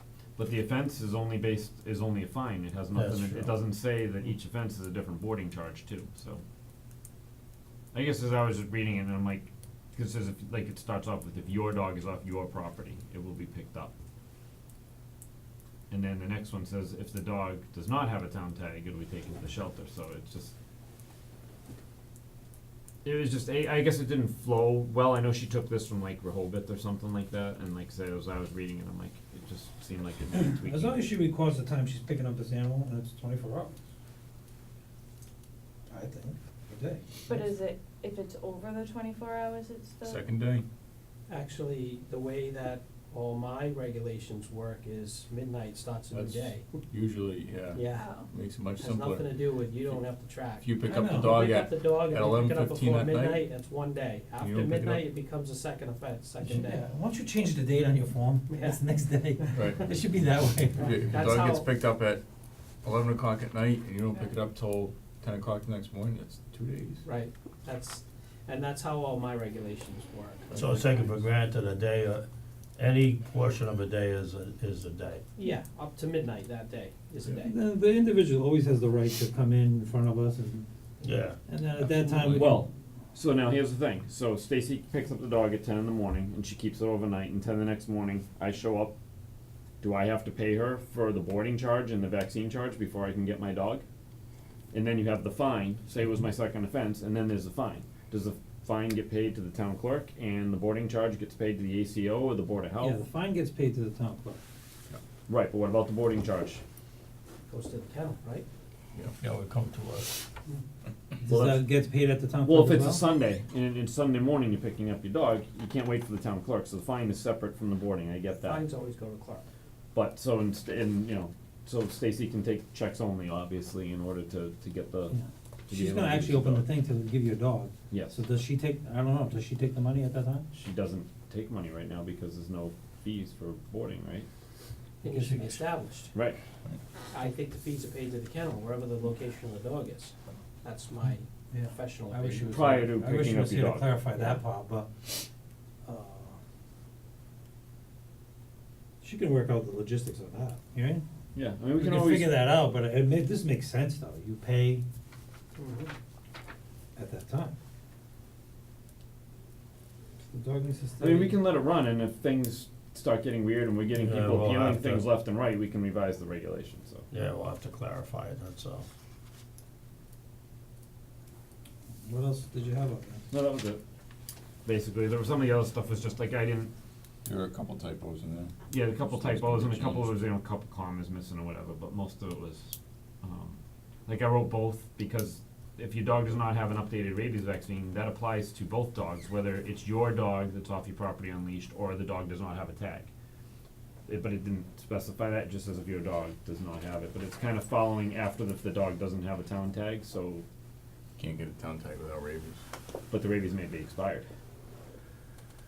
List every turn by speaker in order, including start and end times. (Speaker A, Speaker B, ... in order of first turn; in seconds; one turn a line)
Speaker A: 0.4-6.4
Speaker B: 2.9-3.5
Speaker A: 7.9-13.9
Speaker A: 15.9-20.5
Speaker A: 23.0-31.1
Speaker C: 30.4-33.7
Speaker C: 35.9-37.5
Speaker D: 37.3-40.3
Speaker E: 40.0-40.7
Speaker F: 41.3-46.8
Speaker E: 46.1-53.5
Speaker F: 47.7-48.2
Speaker D: 47.9-48.3
Speaker F: 48.8-56.9
Speaker C: 50.9-51.4
Speaker E: 54.4-55.1
Speaker C: 56.4-61.0
Speaker F: 58.5-58.8
Speaker F: 59.4-59.7
Speaker E: 59.5-59.9
Speaker E: 60.8-62.2
Speaker F: 60.8-61.7
Speaker E: 62.8-67.0
Speaker F: 67.0-71.3
Speaker B: 70.5-75.2
Speaker F: 75.4-77.5
Speaker C: 77.4-80.7
Speaker B: 81.0-81.4
Speaker C: 81.5-82.7
Speaker E: 81.8-82.5
Speaker A: 82.2-88.9
Speaker A: 89.8-93.8
Speaker A: 94.7-103.0
Speaker C: 102.8-104.4
Speaker A: 105.3-106.6
Speaker F: 107.5-108.4
Speaker B: 109.2-110.2
Speaker C: 111.2-113.0
Speaker A: 111.3-111.7
Speaker A: 112.4-118.6
Speaker F: 118.4-119.4
Speaker A: 119.9-125.2
Speaker C: 125.1-130.5
Speaker A: 125.7-126.7
Speaker A: 127.9-128.2
Speaker A: 130.5-134.3
Speaker F: 135.0-136.2
Speaker A: 136.1-136.4
Speaker F: 137.1-142.9
Speaker C: 141.5-145.3
Speaker A: 142.5-143.9
Speaker F: 144.1-144.4
Speaker C: 145.8-146.4
Speaker C: 149.0-151.1
Speaker A: 151.3-152.4
Speaker C: 151.8-154.8
Speaker F: 155.6-155.9
Speaker C: 156.9-157.5
Speaker C: 160.3-161.4
Speaker A: 161.0-167.1
Speaker B: 164.0-165.1
Speaker B: 167.1-168.9
Speaker C: 172.0-173.2
Speaker A: 173.3-173.8
Speaker A: 174.7-176.7
Speaker E: 177.2-178.6
Speaker A: 178.7-193.1
Speaker E: 179.1-180.2
Speaker A: 194.1-200.4
Speaker E: 201.2-202.6
Speaker A: 203.1-204.3